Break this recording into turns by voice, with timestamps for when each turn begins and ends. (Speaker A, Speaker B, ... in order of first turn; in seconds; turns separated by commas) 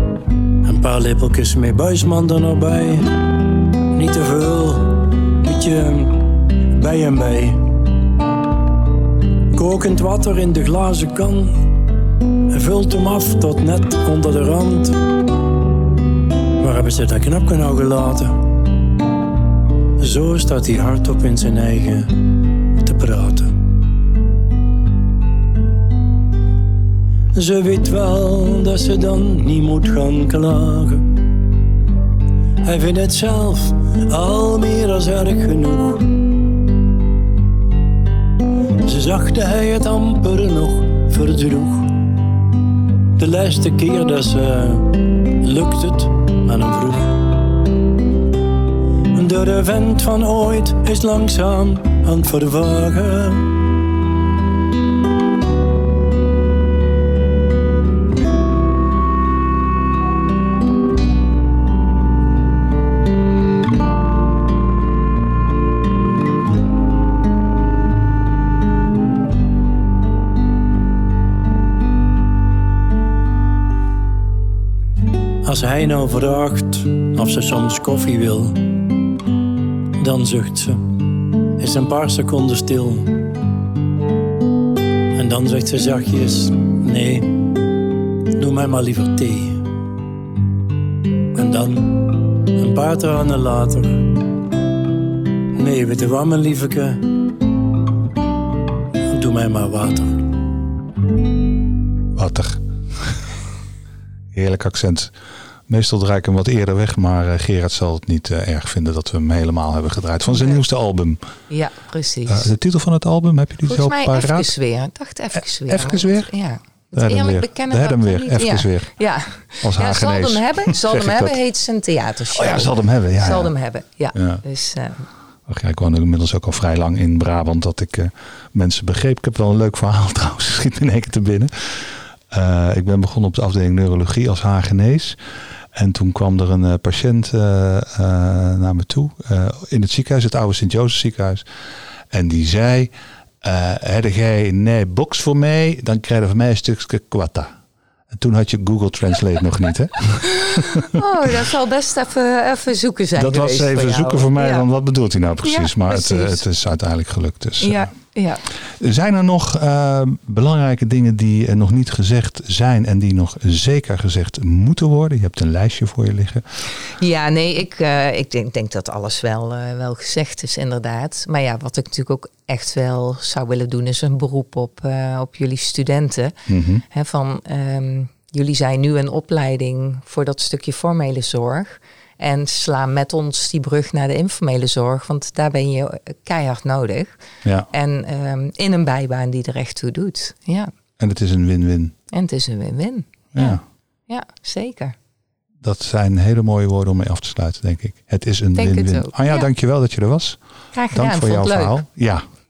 Speaker A: 0.6-3.2, Speaker A: 3.9-7.6, Speaker A: 9.5-11.6, Speaker A: 12.5-15.0, Speaker A: 16.6-18.4, Speaker A: 20.0-23.5, Speaker A: 27.3-31.1, Speaker A: 32.6-36.1, Speaker A: 38.8-42.0, Speaker A: 43.2-47.3, Speaker A: 49.1-53.5, Speaker A: 75.4-78.7, Speaker A: 80.0-80.9, Speaker A: 81.6-83.2, Speaker A: 85.1-87.6, Speaker A: 88.4-89.6, Speaker A: 91.3-94.1, Speaker A: 95.5-97.1, Speaker A: 99.1-100.2, Speaker B: 102.2-103.2, Speaker B: 104.3-105.1, Speaker B: 105.7-111.2, Speaker C: 110.3-110.6, Speaker C: 111.5-112.5, Speaker B: 112.3-114.5, Speaker C: 113.7-125.1, Speaker B: 115.7-116.3, Speaker B: 116.9-118.9, Speaker B: 119.6-121.4, Speaker B: 122.3-123.5, Speaker B: 124.1-124.4, Speaker B: 125.5-135.2, Speaker B: 135.7-141.4, Speaker B: 142.1-142.9, Speaker B: 143.4-147.6, Speaker B: 148.1-151.0, Speaker C: 150.3-154.7, Speaker B: 153.2-157.9, Speaker C: 155.4-156.4, Speaker C: 157.6-158.4, Speaker B: 158.8-166.4, Speaker C: 166.9-187.2, Speaker B: 176.5-176.8, Speaker C: 187.7-190.7, Speaker B: 191.0-191.9, Speaker C: 192.1-194.9, Speaker B: 193.3-193.6, Speaker B: 195.6-200.4, Speaker C: 198.6-199.5, Speaker C: 200.7-201.8, Speaker B: 200.9-202.2